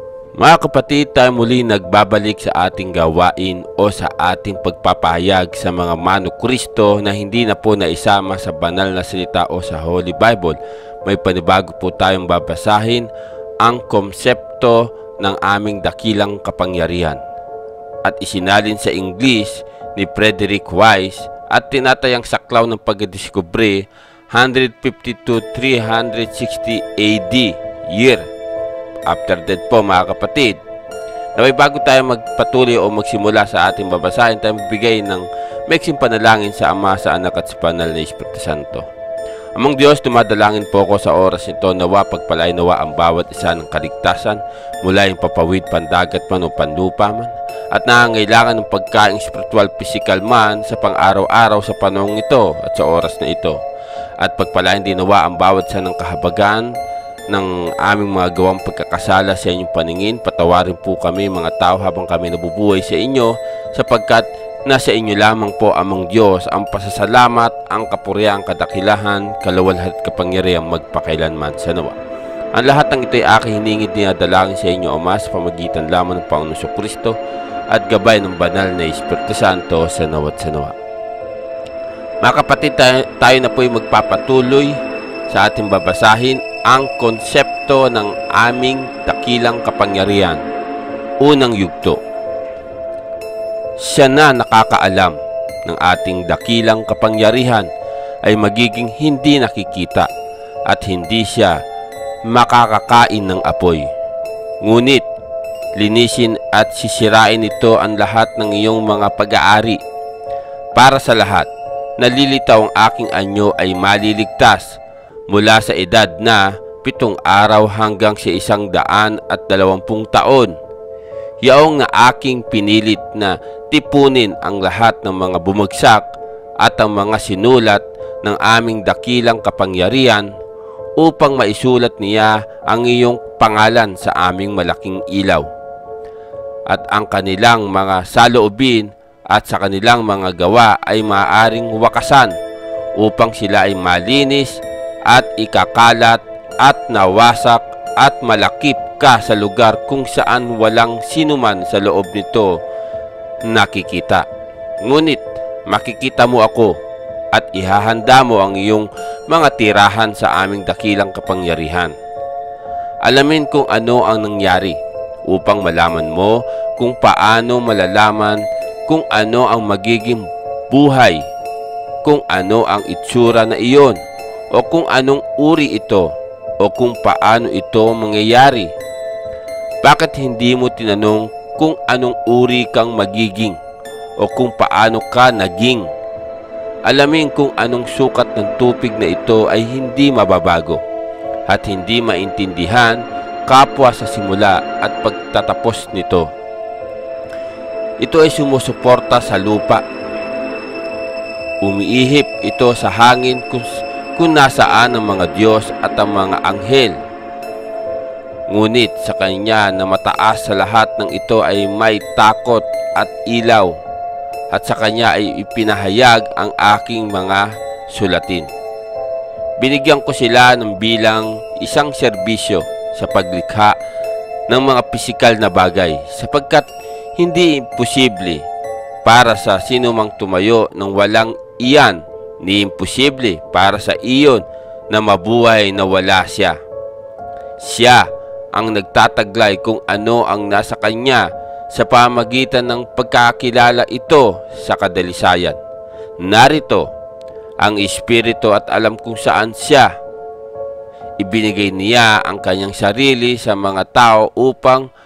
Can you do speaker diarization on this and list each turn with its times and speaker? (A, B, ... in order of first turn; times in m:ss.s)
0:00.4-0:13.1 A
0:13.6-0:17.2 A
0:18.0-0:28.3 A
0:29.1-0:30.6 A
0:31.4-0:38.9 A
0:39.6-0:53.6 A
0:54.2-0:56.7 A
0:57.3-1:12.0 A
1:12.5-1:17.2 A
1:17.7-1:20.8 A
1:22.2-1:24.8 A
1:25.3-1:30.4 A
1:31.2-1:32.0 A
1:33.8-1:37.7 A
1:38.2-1:40.1 A
1:40.7-1:41.6 A
1:42.2-1:43.9 A
1:44.6-1:45.0 A
1:45.8-1:49.8 A
1:50.7-1:54.8 A
1:55.3-2:00.6 A
2:01.4-2:06.1 A
2:06.6-2:10.3 A
2:11.0-2:15.4 A
2:16.7-2:22.3 A
2:23.0-2:32.6 A
2:33.4-2:34.2 A
2:34.8-2:36.8 A
2:37.3-2:41.9 A
2:43.0-2:51.2 A
2:52.0-2:54.0 A
2:54.5-2:58.8 A
2:59.8-3:03.6 A
3:04.2-3:05.9 A
3:06.8-3:10.8 A
3:11.5-3:16.3 A
3:18.0-3:19.8 A
3:21.6-3:27.0 A
3:28.5-3:33.8 A
3:34.5-3:38.5 A
3:39.6-3:43.8 A
3:44.5-3:48.4 A
3:49.0-3:56.6 A
3:57.6-4:05.6 A
4:06.2-4:06.9 A
4:07.6-4:09.9 A
4:11.2-4:14.9 A